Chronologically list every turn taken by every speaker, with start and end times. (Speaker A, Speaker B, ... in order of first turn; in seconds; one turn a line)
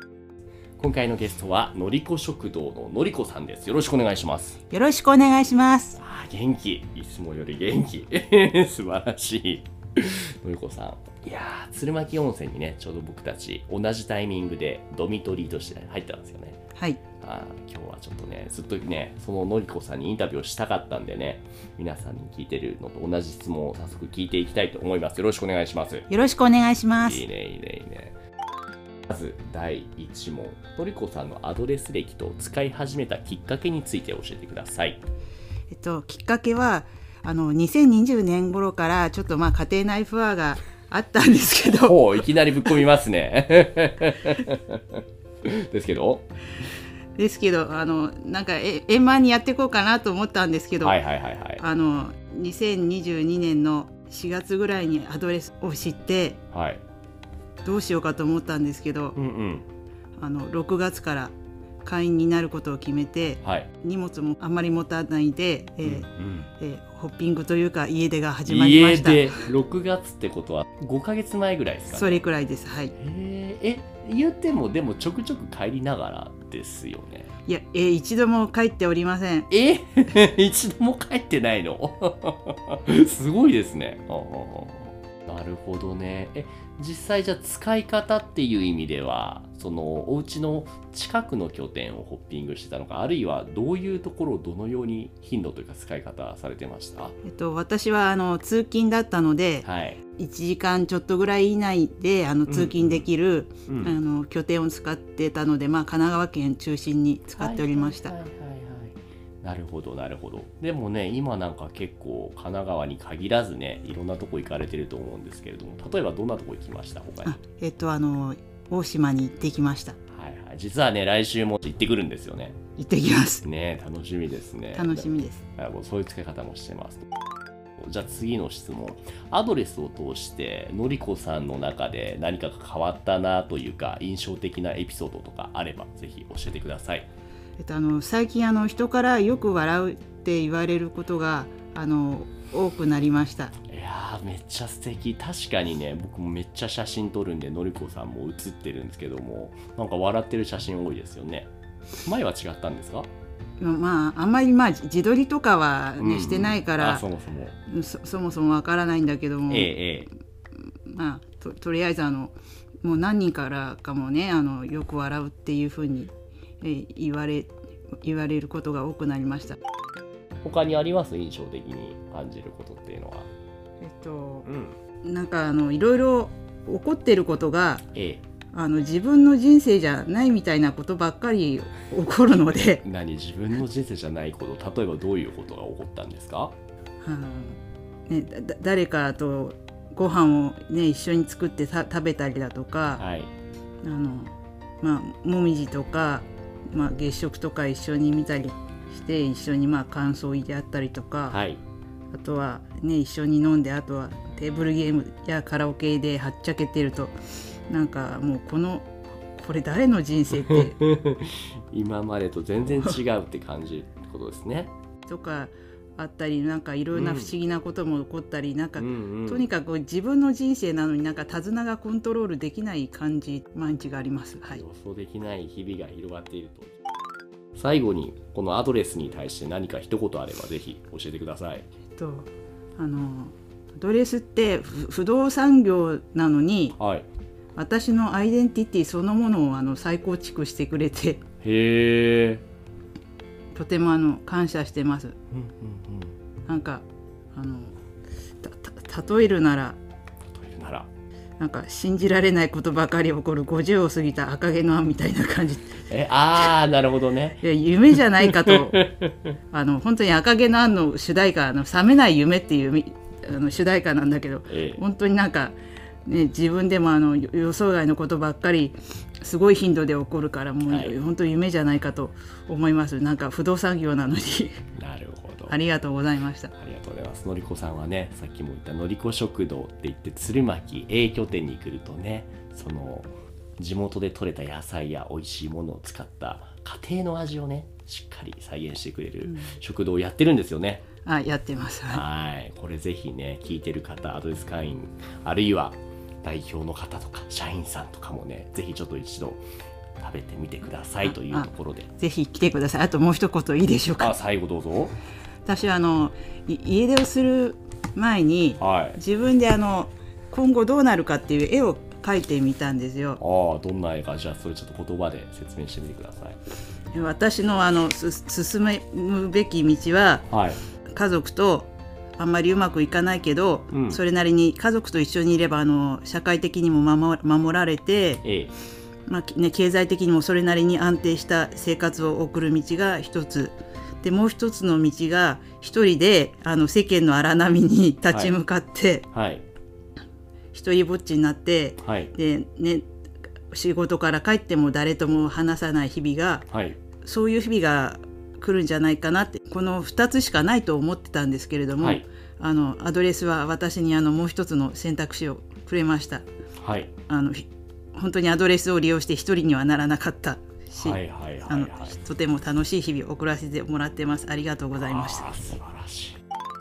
Speaker A: 0.8-4.6
Speaker B: 4.7-6.0
Speaker A: 6.0-16.6
Speaker B: 16.8-17.0
Speaker A: 17.2-26.1
Speaker B: 26.1-27.2
Speaker A: 27.0-28.1
Speaker A: 29.1-35.0
Speaker B: 35.7-42.0
Speaker A: 41.8-46.2
Speaker B: 47.1-51.0
Speaker A: 50.8-51.6
Speaker B: 51.6-56.4
Speaker A: 56.5-56.8
Speaker B: 57.6-59.1
Speaker A: 59.1-59.7
Speaker B: 60.2-69.4
Speaker A: 63.4-63.7
Speaker A: 65.8-66.5
Speaker A: 68.5-72.2
Speaker B: 71.9-72.9
Speaker A: 73.0-77.3
Speaker B: 77.5-79.5
Speaker A: 79.5-97.2
Speaker B: 97.2-99.7
Speaker A: 99.6-100.0
Speaker B: 100.2-108.1
Speaker A: 102.5-103.0
Speaker A: 103.7-104.0
Speaker A: 107.3-117.4
Speaker B: 117.2-120.0
Speaker A: 120.1-122.6
Speaker B: 122.8-123.4
Speaker A: 123.4-127.1
Speaker B: 124.7-125.4
Speaker A: 127.8-137.1
Speaker B: 137.6-143.5
Speaker A: 143.7-151.5
Speaker A: 152.0-153.1
Speaker B: 153.6-157.0
Speaker A: 156.0-157.6
Speaker B: 157.7-159.7
Speaker A: 159.5-160.1
Speaker B: 160.8-169.6
Speaker A: 170.4-173.3
Speaker B: 173.8-174.5
Speaker A: 174.4-174.8
Speaker B: 175.0-177.8
Speaker A: 177.9-178.2
Speaker B: 178.5-182.8
Speaker A: 182.8-186.5
Speaker B: 187.0-193.0
Speaker A: 193.0-193.3
Speaker B: 193.8-201.4
Speaker A: 201.3-201.6
Speaker B: 202.1-207.1
Speaker B: 207.7-210.8
Speaker A: 210.4-214.7
Speaker B: 215.1-224.6
Speaker A: 216.9-217.3
Speaker A: 218.8-219.5
Speaker A: 224.5-226.7
Speaker A: 227.5-231.7
Speaker B: 231.9-236.8
Speaker A: 236.8-237.1
Speaker B: 237.5-241.2
Speaker A: 241.4-242.4
Speaker B: 243.5-245.1
Speaker A: 245.3-246.2
Speaker B: 246.4-247.8
Speaker B: 248.4-249.8
Speaker A: 250.2-250.9
Speaker B: 251.4-255.8
Speaker A: 255.9-257.4
Speaker B: 257.4-258.8
Speaker A: 257.9-259.3
Speaker B: 259.5-274.6
Speaker A: 264.5-264.8
Speaker A: 270.6-270.9
Speaker A: 274.8-275.6
Speaker B: 275.5-276.5
Speaker A: 276.6-290.8
Speaker B: 289.2-289.6
Speaker B: 291.0-292.0
Speaker A: 291.9-299.4
Speaker A: 300.0-301.9
Speaker B: 301.0-304.1
Speaker A: 304.0-304.9
Speaker B: 305.4-313.2
Speaker A: 308.6-309.0
Speaker A: 313.2-316.4
Speaker B: 316.9-320.2
Speaker A: 320.3-320.6
Speaker B: 320.9-328.2
Speaker A: 323.7-324.0
Speaker A: 328.2-328.5
Speaker B: 329.1-339.1
Speaker A: 338.1-338.4
Speaker A: 339.1-339.4
Speaker B: 340.5-342.9
Speaker A: 341.8-342.1
Speaker B: 343.5-346.4
Speaker A: 346.5-346.8
Speaker B: 347.0-356.2
Speaker A: 351.8-352.0
Speaker A: 356.6-356.9
Speaker B: 357.1-365.5
Speaker A: 360.8-362.0
Speaker A: 364.8-366.2